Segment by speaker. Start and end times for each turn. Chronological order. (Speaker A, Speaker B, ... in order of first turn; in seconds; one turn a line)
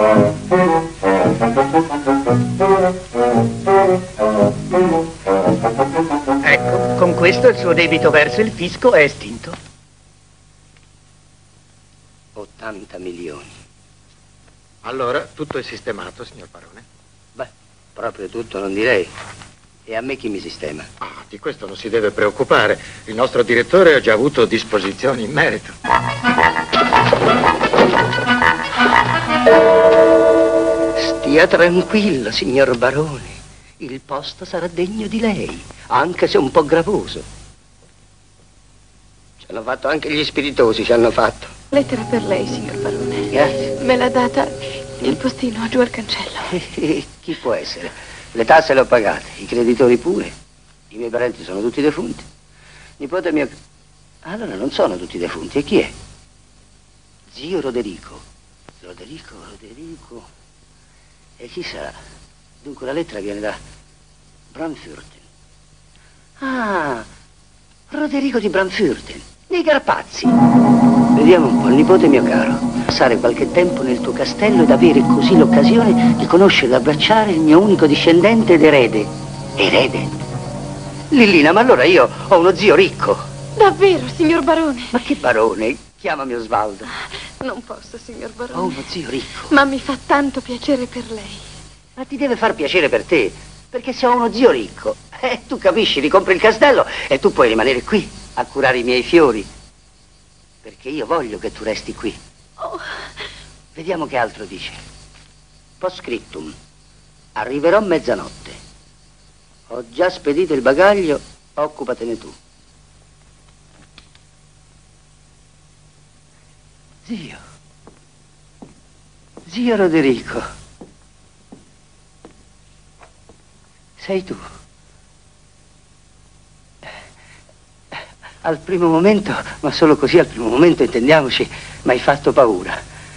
Speaker A: 6.5-9.5
Speaker B: 12.3-13.5
Speaker C: 14.8-16.8
Speaker B: 17.4-19.1
Speaker B: 19.9-20.9
Speaker C: 21.0-25.7
Speaker B: 30.9-37.2
Speaker B: 39.4-41.5
Speaker D: 41.7-46.6
Speaker B: 43.3-43.7
Speaker B: 46.5-50.3
Speaker B: 50.9-52.2
Speaker B: 53.0-53.5
Speaker B: 54.2-55.9
Speaker B: 57.3-58.2
Speaker B: 58.8-60.3
Speaker B: 61.4-61.9
Speaker B: 62.6-63.6
Speaker B: 64.5-65.2
Speaker B: 66.4-67.1
Speaker B: 67.9-70.3
Speaker B: 71.1-80.2
Speaker B: 81.1-83.2
Speaker D: 83.6-85.0
Speaker B: 84.9-86.9
Speaker D: 87.4-88.9
Speaker B: 88.5-89.5
Speaker D: 89.5-91.4
Speaker B: 92.0-99.5
Speaker B: 100.6-102.2
Speaker B: 103.7-104.8
Speaker B: 105.8-106.5
Speaker B: 107.4-108.6
Speaker B: 109.7-112.3
Speaker B: 117.0-117.4
Speaker B: 119.5-120.4
Speaker B: 124.0-124.4
Speaker B: 128.4-132.8